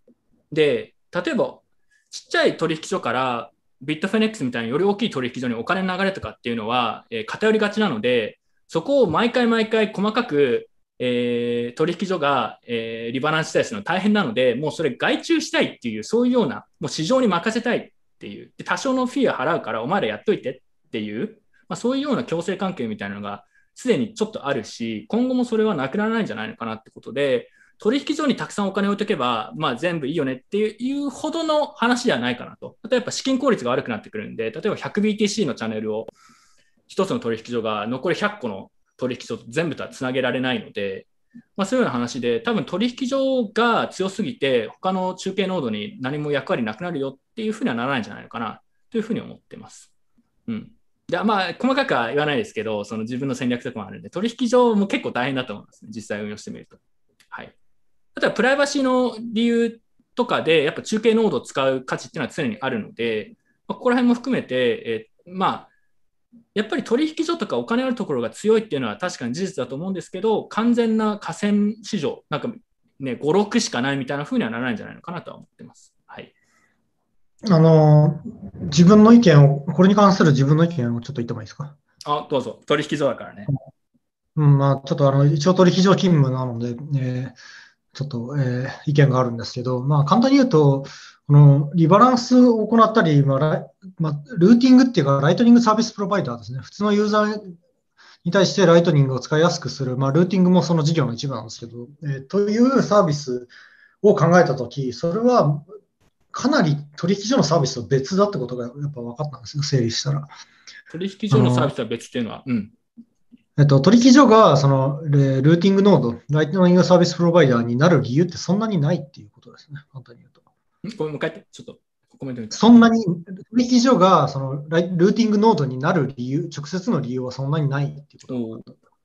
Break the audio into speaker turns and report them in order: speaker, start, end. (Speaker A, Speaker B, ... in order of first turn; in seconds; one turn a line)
Speaker A: 0.5-36.1
Speaker A: 36.9-49.9
Speaker A: 50.5-56.8
Speaker A: 58.1-65.7
Speaker A: 66.5-76.3
Speaker B: 77.5-81.8
Speaker A: 82.0-83.5
Speaker B: 84.4-87.4
Speaker B: 87.9-97.6
Speaker B: 98.2-103.5
Speaker B: 104.0-105.7
Speaker B: 106.3-110.3
Speaker A: 110.9-112.7
Speaker B: 111.3-111.7
Speaker B: 113.6-120.4
Speaker A: 120.8-122.9
Speaker B: 122.5-128.8
Speaker A: 128.3-128.6